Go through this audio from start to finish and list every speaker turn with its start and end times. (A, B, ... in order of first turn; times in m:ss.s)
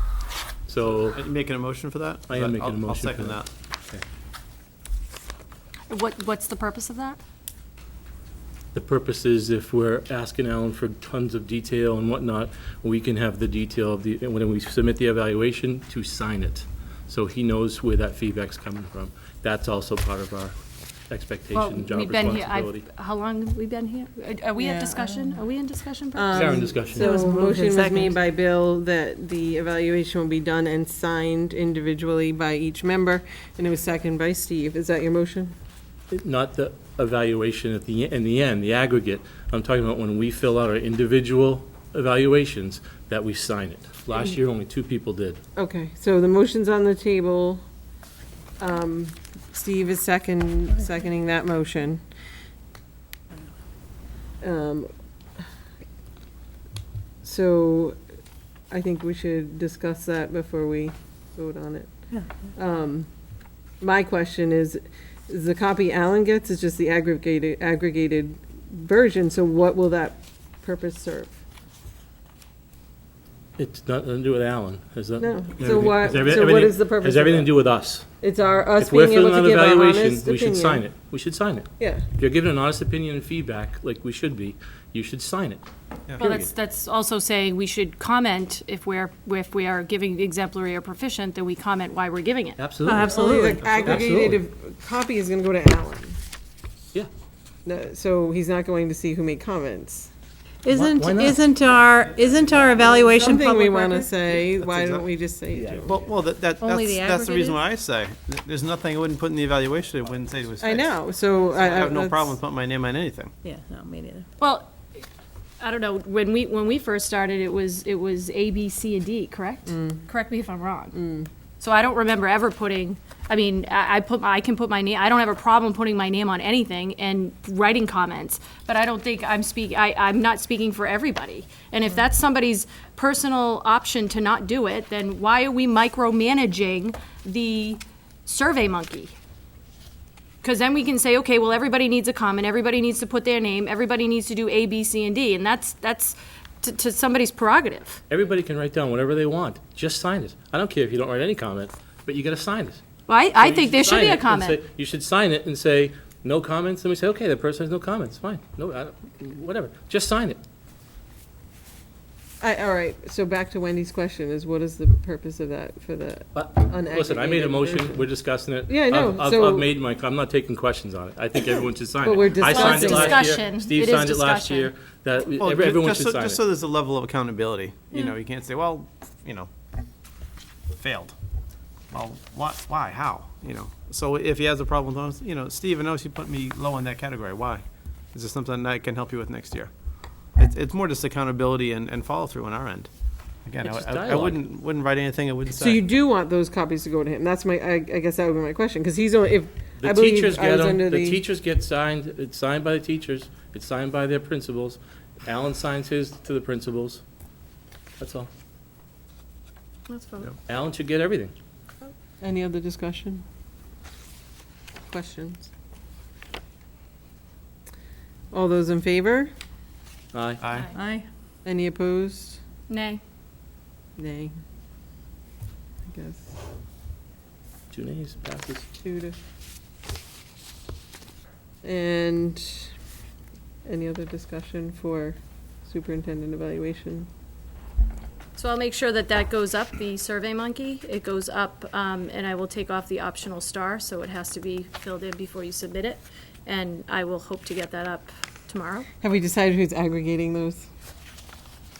0:00.7-0:01.2 A
0:00.9-0:03.5 B
0:02.3-0:04.0 A
0:05.9-0:07.2 C
0:08.7-0:20.5 A
0:21.1-0:22.8 A
0:21.5-0:26.8 C
0:24.6-0:25.4 D
0:26.1-0:35.5 D
0:26.3-0:27.1 A
0:26.9-0:28.2 E
0:36.1-0:45.4 A
0:45.6-0:47.6 D
0:48.6-0:52.0 D
0:54.4-0:54.9 D
0:57.2-0:58.0 D
0:58.7-1:03.1 D
1:03.8-1:11.3 D
1:13.6-1:18.0 A
1:15.2-1:17.5 D
1:18.2-1:20.8 D
1:18.8-1:25.6 A
1:21.8-1:22.0 D
1:26.2-1:32.6 C
1:26.2-1:26.5 A
1:32.6-1:33.2 A
1:32.8-1:33.7 E
1:33.0-1:36.2 D
1:33.6-1:34.1 B
1:33.8-1:34.4 A
1:37.6-1:40.1 D
1:40.6-1:44.1 E
1:40.7-1:41.4 A
1:42.2-1:42.6 B
1:42.9-1:46.0 D
1:44.6-1:45.0 B
1:45.8-1:51.0 B
1:46.6-1:47.6 E
1:50.6-1:52.4 D
1:51.5-1:53.3 B
1:53.4-1:54.2 E
1:54.4-1:55.0 C
1:55.6-2:00.9 C
1:59.6-2:00.0 D
2:00.9-2:01.3 D
2:01.6-2:19.1 C
2:20.4-2:28.0 C
2:28.1-2:32.8 A
2:33.1-2:34.6 C
2:33.4-2:40.4 A
2:42.4-2:48.0 D
2:46.3-2:56.4 A
2:48.7-2:49.7 D
2:52.0-2:53.3 D
2:52.4-2:54.7 C
2:55.4-2:59.5 B
3:00.7-3:01.2 B
3:01.9-3:09.7 B
3:10.4-3:12.9 B
3:13.4-3:15.8 B
3:13.6-3:14.4 A
3:15.5-3:21.2 D
3:19.8-3:27.0 A
3:28.0-3:28.3 A
3:29.9-3:30.3 C
3:30.4-3:31.3 A
3:32.2-3:33.2 D
3:34.9-3:35.5 D
3:38.3-3:39.3 D
3:40.1-3:40.4 A
3:40.4-3:40.7 B
3:40.7-3:41.0 E
3:41.4-3:42.4 D
3:42.7-3:43.0 C
3:44.0-3:44.3 D
3:45.8-3:46.4 D
3:47.7-3:48.7 A
3:48.8-3:49.2 D
3:51.6-3:52.7 D
3:53.6-3:57.1 D
3:58.4-4:08.9 C
4:09.0-4:10.7 D